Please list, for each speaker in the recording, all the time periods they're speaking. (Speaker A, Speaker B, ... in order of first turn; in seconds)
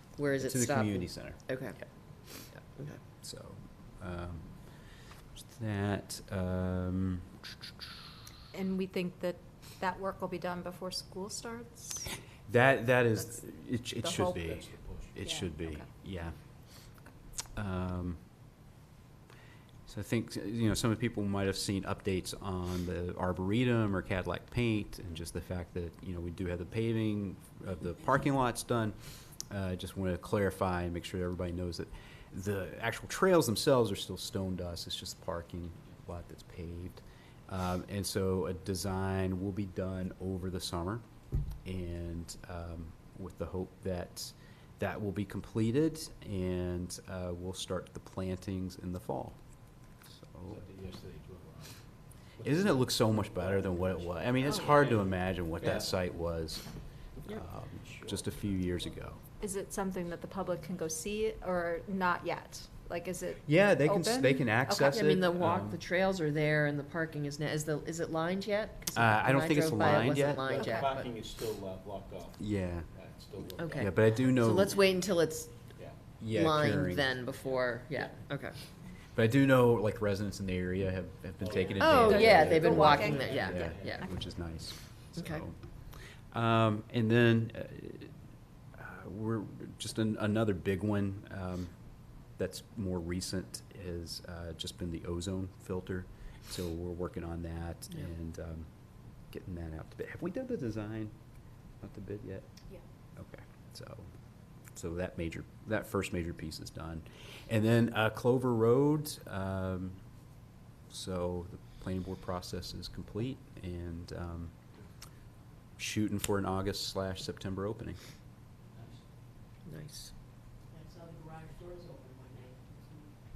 Speaker A: 0.1-1.8, 64.9-71.1, 73.6-75.6, 76.3-78.5, 81.8-84.1, 85.2-85.4, 119.7-120.1
Speaker B: 0.4-1.4, 3.2-4.6, 5.3-7.4, 12.5-16.4, 17.6-18.2, 19.9-28.9, 29.5-41.0, 41.6-49.4, 50.2-50.6, 52.4-56.6, 57.3-59.2, 63.5-65.8, 68.9-70.4, 72.4-72.9, 73.8-74.7, 76.2-77.2, 79.1-85.5, 86.3-88.1, 88.8-91.7, 92.4-98.7, 99.3-101.1, 101.8-102.5, 103.2-104.1, 104.7-110.0, 110.9-114.5, 115.8-118.0
Speaker C: 8.5-12.1, 14.0-14.3, 15.2-15.8, 59.4-65.0, 70.5-70.8, 81.9-84.1
Speaker D: 14.4-15.2, 50.5-51.8, 52.4-55.9, 57.8-58.5, 70.0-74.4, 81.4-84.1
Speaker E: 120.7-123.0